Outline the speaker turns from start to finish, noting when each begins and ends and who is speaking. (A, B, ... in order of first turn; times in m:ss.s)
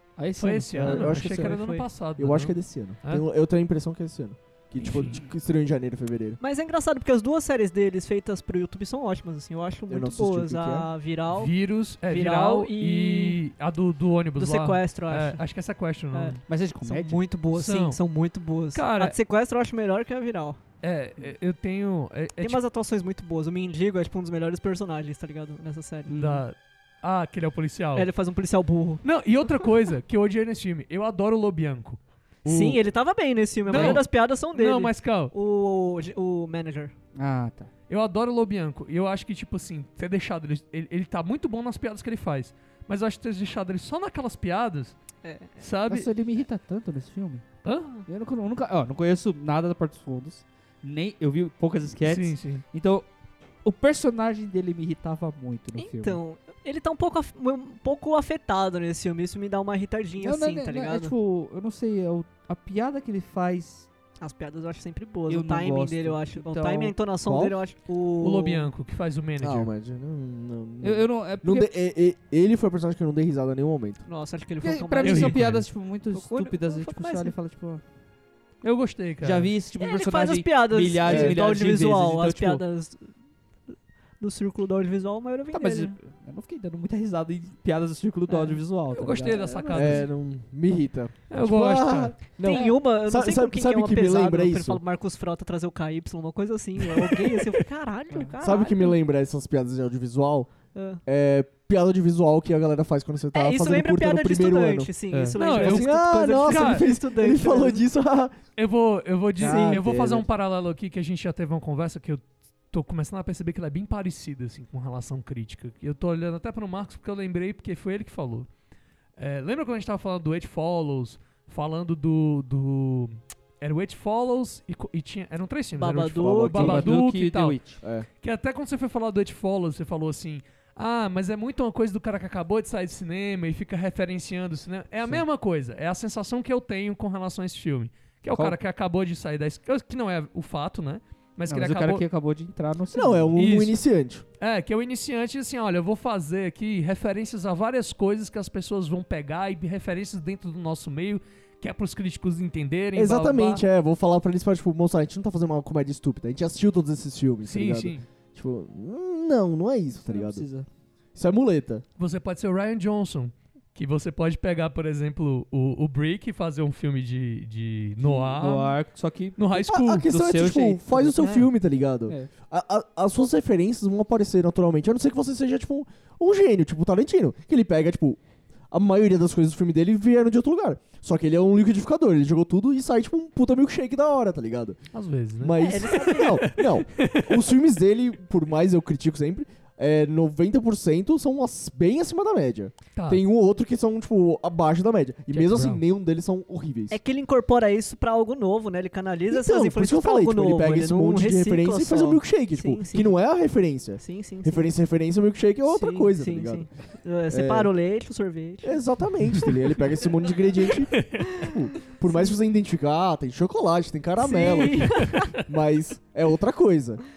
0:00.2-0:01.2 A
0:00.4-0:03.2 B
0:00.8-0:01.6 C
0:01.1-0:01.9 D
0:02.2-0:06.4 C
0:04.8-0:05.1 B
0:06.4-0:11.5 D
0:09.9-0:10.9 C
0:11.3-0:16.4 B
0:12.1-0:13.4 D
0:14.4-0:15.4 D
0:16.1-0:20.6 D
0:16.5-0:17.2 A
0:17.5-0:18.0 B
0:18.7-0:19.2 B
0:20.8-0:22.6 B
0:22.4-0:26.1 D
0:26.1-0:26.4 A
0:26.1-0:28.1 B
0:28.0-0:29.0 D
0:29.0-0:32.8 B
0:32.4-0:36.9 D
0:33.7-0:35.3 B
0:33.8-0:34.0 A
0:37.2-0:37.7 A
0:37.9-0:45.0 B
0:45.2-0:45.6 D
0:45.6-0:46.1 B
0:45.9-0:47.4 A
0:47.6-0:47.9 B
0:48.1-0:53.1 A
0:52.0-0:52.6 B
0:53.6-0:56.2 A
0:55.8-1:01.1 D
1:00.2-1:03.9 A
1:04.2-1:08.7 D
1:05.3-1:07.0 A
1:07.2-1:07.6 C
1:08.2-1:09.7 B
1:09.4-1:14.0 C
1:10.8-1:11.7 A
1:14.1-1:15.4 D
1:14.6-1:17.8 A
1:15.0-1:15.7 B
1:16.1-1:17.4 D
1:18.6-1:19.5 B
1:19.2-1:22.6 A
1:19.8-1:23.1 D
1:21.0-1:21.4 C
1:24.2-1:26.0 D
1:25.5-1:30.0 A
1:28.3-1:28.6 D
1:28.9-1:30.1 B
1:29.7-1:34.8 C
1:31.3-1:32.2 B
1:32.4-1:39.0 D
1:38.4-1:40.5 C
1:40.7-1:41.0 D
1:41.1-1:44.9 C
1:43.3-1:47.8 D
1:45.1-1:45.4 A
1:45.4-1:46.9 B
1:45.5-1:48.4 C
1:48.6-1:58.5 B
1:49.4-1:50.3 C
1:49.4-1:49.8 D
1:59.2-2:07.6 B
2:05.8-2:06.8 D
2:06.2-2:06.9 C
2:06.5-2:07.8 A
2:07.8-2:08.1 C
2:08.2-2:22.0 B
2:21.5-2:23.4 A
2:22.9-2:24.2 C
2:23.4-2:23.8 B
2:24.4-2:33.6 B
2:33.0-2:40.4 C
2:37.4-2:38.0 B
2:40.0-2:40.7 A
2:41.2-2:41.8 C
2:42.0-2:48.8 B
2:48.0-2:49.4 A
2:49.4-2:50.1 B
2:49.6-2:58.2 C
2:50.0-2:51.5 A
2:58.7-3:04.8 C
3:04.9-3:07.4 B
3:05.4-3:17.0 C
3:05.6-3:06.4 D
3:13.0-3:13.2 B
3:15.3-3:15.8 B
3:16.9-3:23.2 D
3:19.3-3:26.7 C
3:24.0-3:24.7 D
3:25.7-3:28.8 D
3:27.3-3:27.7 C
3:28.6-3:37.0 C
3:30.9-3:31.5 B
3:32.1-3:32.3 D
3:34.2-3:35.4 D